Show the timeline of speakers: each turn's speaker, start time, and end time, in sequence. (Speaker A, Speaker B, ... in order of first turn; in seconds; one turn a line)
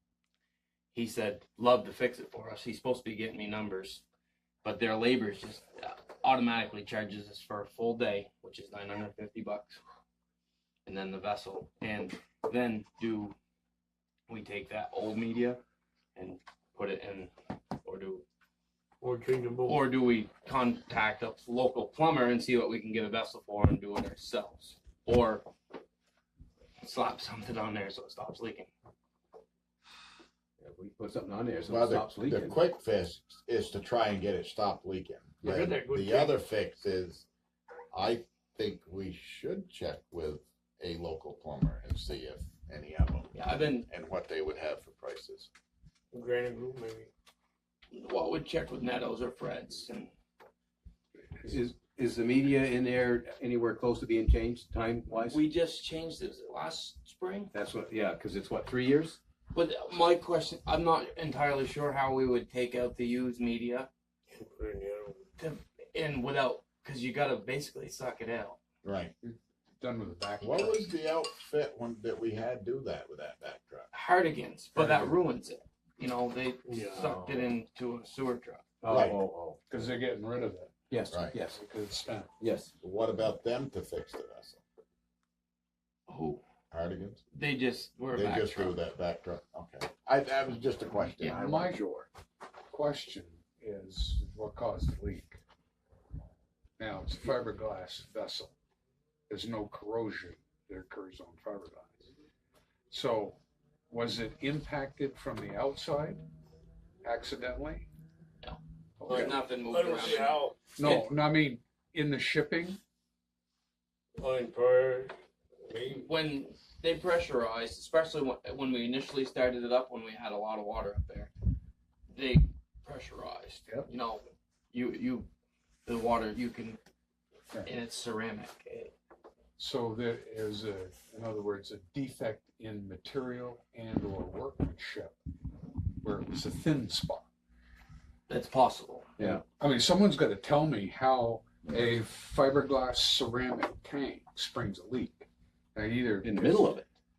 Speaker A: 0.9-4.0
Speaker A: 4.6-9.8
Speaker A: 10.9-13.3
Speaker A: 14.3-15.6
Speaker A: 16.2-17.3
Speaker A: 17.8-18.2
Speaker B: 19.0-19.8
Speaker A: 19.6-25.5
Speaker A: 26.8-28.7
Speaker C: 30.6-32.6
Speaker D: 31.7-37.3
Speaker B: 35.4-36.4
Speaker D: 37.9-45.5
Speaker A: 43.4-43.9
Speaker B: 46.1-47.1
Speaker A: 47.9-50.1
Speaker C: 51.4-55.4
Speaker A: 55.1-57.5
Speaker C: 57.5-59.2
Speaker A: 59.5-63.9
Speaker B: 64.3-65.2
Speaker A: 65.4-68.6
Speaker D: 68.8-69.1
Speaker E: 69.2-70.9
Speaker D: 70.4-73.9
Speaker A: 73.9-78.7
Speaker E: 74.8-75.2
Speaker B: 76.7-77.4
Speaker C: 78.8-79.6
Speaker D: 78.9-79.2
Speaker E: 79.7-80.8
Speaker C: 80.9-81.6
Speaker E: 81.4-82.4
Speaker C: 82.4-82.7
Speaker D: 82.8-84.6
Speaker A: 86.1-86.4
Speaker D: 86.7-87.2
Speaker A: 87.3-88.8
Speaker D: 88.1-92.1
Speaker E: 91.2-92.0
Speaker E: 92.7-95.4
Speaker E: 96.8-98.5
Speaker E: 99.3-102.1
Speaker E: 102.9-106.2
Speaker E: 107.0-107.9
Speaker A: 108.4-111.1
Speaker E: 109.0-109.3
Speaker B: 109.1-110.7
Speaker E: 110.7-112.8
Speaker B: 114.2-116.1
Speaker A: 115.9-121.3
Speaker A: 122.1-125.3
Speaker A: 125.9-126.8
Speaker A: 127.6-128.9
Speaker E: 129.6-135.2
Speaker E: 136.0-137.3
Speaker A: 138.3-139.1
Speaker C: 139.2-139.4
Speaker E: 139.4-146.7
Speaker C: 146.2-146.9